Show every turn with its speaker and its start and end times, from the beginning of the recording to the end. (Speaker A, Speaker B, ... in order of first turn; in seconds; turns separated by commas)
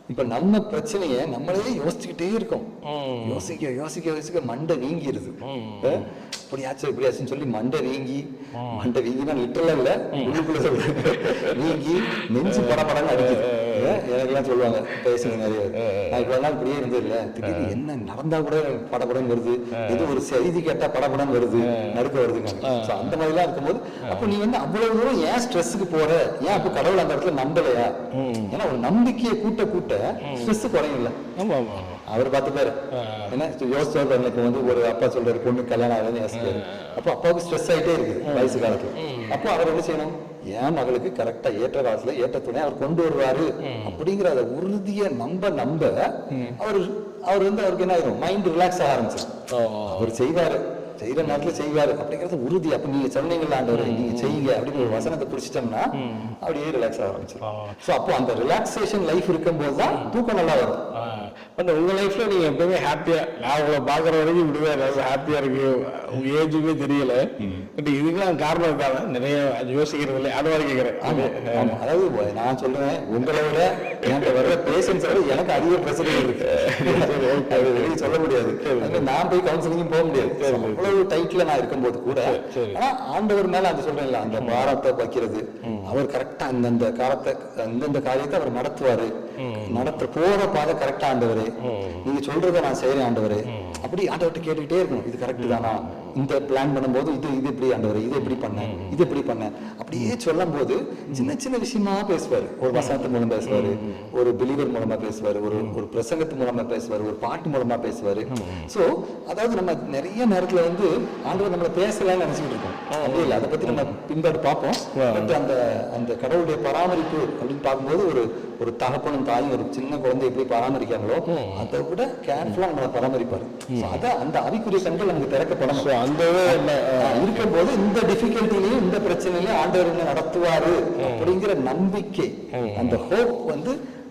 Speaker A: 0.1-2.7, Speaker B: 2.8-3.5, Speaker A: 3.2-27.9, Speaker B: 5.4-6.1, Speaker B: 8.5-8.9, Speaker B: 10.1-14.1, Speaker B: 15.2-16.3, Speaker B: 17.4-17.8, Speaker B: 19.8-20.1, Speaker B: 21.7-22.0, Speaker B: 22.6-23.2, Speaker B: 24.1-24.3, Speaker B: 26.5-26.8, Speaker B: 28.1-28.6, Speaker A: 28.5-31.1, Speaker B: 30.2-30.7, Speaker B: 31.4-32.0, Speaker A: 32.1-49.3, Speaker B: 32.9-33.3, Speaker B: 36.3-37.0, Speaker B: 38.2-39.4, Speaker B: 43.6-44.0, Speaker B: 46.3-46.6, Speaker B: 49.5-50.2, Speaker A: 49.9-60.8, Speaker B: 51.2-51.6, Speaker B: 53.7-55.1, Speaker B: 55.9-56.4, Speaker B: 57.4-57.8, Speaker B: 59.9-60.1, Speaker B: 60.9-71.8, Speaker A: 67.4-67.7, Speaker A: 71.0-125.9, Speaker B: 73.8-79.1, Speaker B: 80.1-81.0, Speaker B: 82.1-82.8, Speaker B: 84.4-84.7, Speaker B: 85.6-86.0, Speaker B: 89.4-90.0, Speaker B: 91.6-92.1, Speaker B: 93.5-93.9, Speaker B: 95.4-96.2, Speaker B: 98.2-99.0, Speaker B: 102.7-104.1, Speaker B: 108.3-108.7, Speaker B: 112.9-113.9, Speaker B: 114.9-115.4, Speaker B: 121.3-121.7, Speaker B: 123.7-124.0, Speaker B: 125.7-127.5, Speaker A: 126.4-133.8, Speaker B: 131.0-131.4, Speaker B: 132.5-133.0